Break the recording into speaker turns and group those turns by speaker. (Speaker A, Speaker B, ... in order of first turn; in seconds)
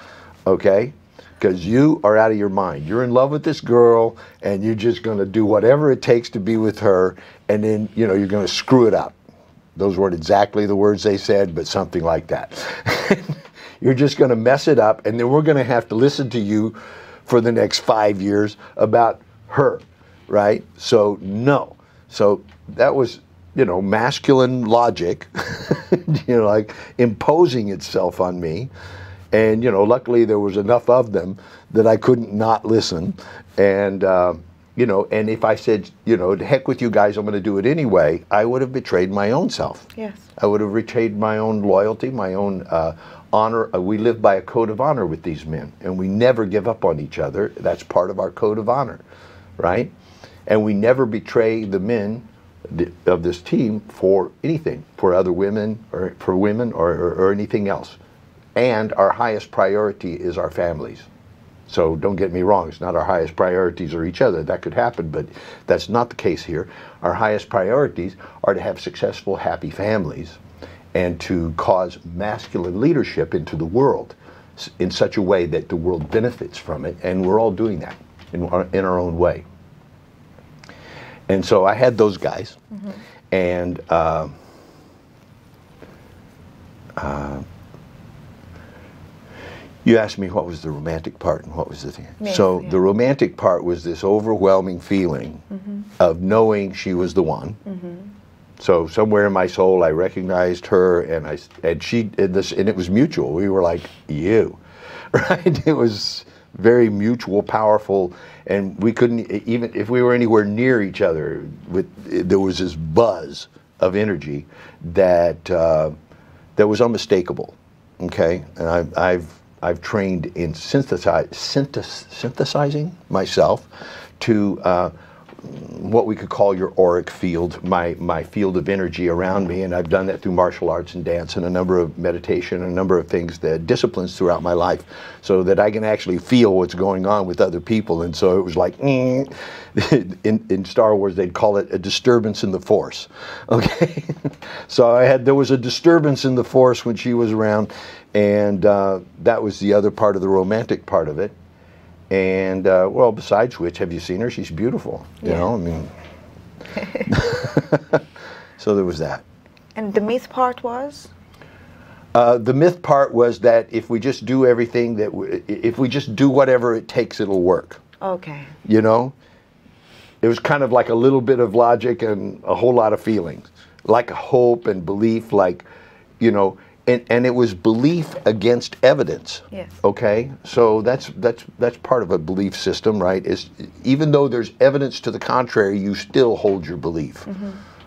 Speaker A: 0.5-9.2, 9.8-16.8, 17.3-28.7, 29.3-49.0, 49.6-49.9, 50.5-58.0, 58.6-61.1, 61.7-70.4, 70.9-79.5, 81.3-82.6, 83.3-84.3, 87.0-87.5, 89.8-95.4, 96.0-97.6, 98.6-104.6, 105.1-115.9, 116.6-123.7, 124.2-151.3, 152.1-155.9, 157.1-158.0, 158.6-159.2, 162.1-167.8, 168.7-169.1, 170.2-175.7, 176.2-187.3
Speaker B: 40.0-40.2, 92.2-92.7, 97.7-98.1, 155.2-155.5, 159.8-161.1, 168.0-168.5, 187.3-187.6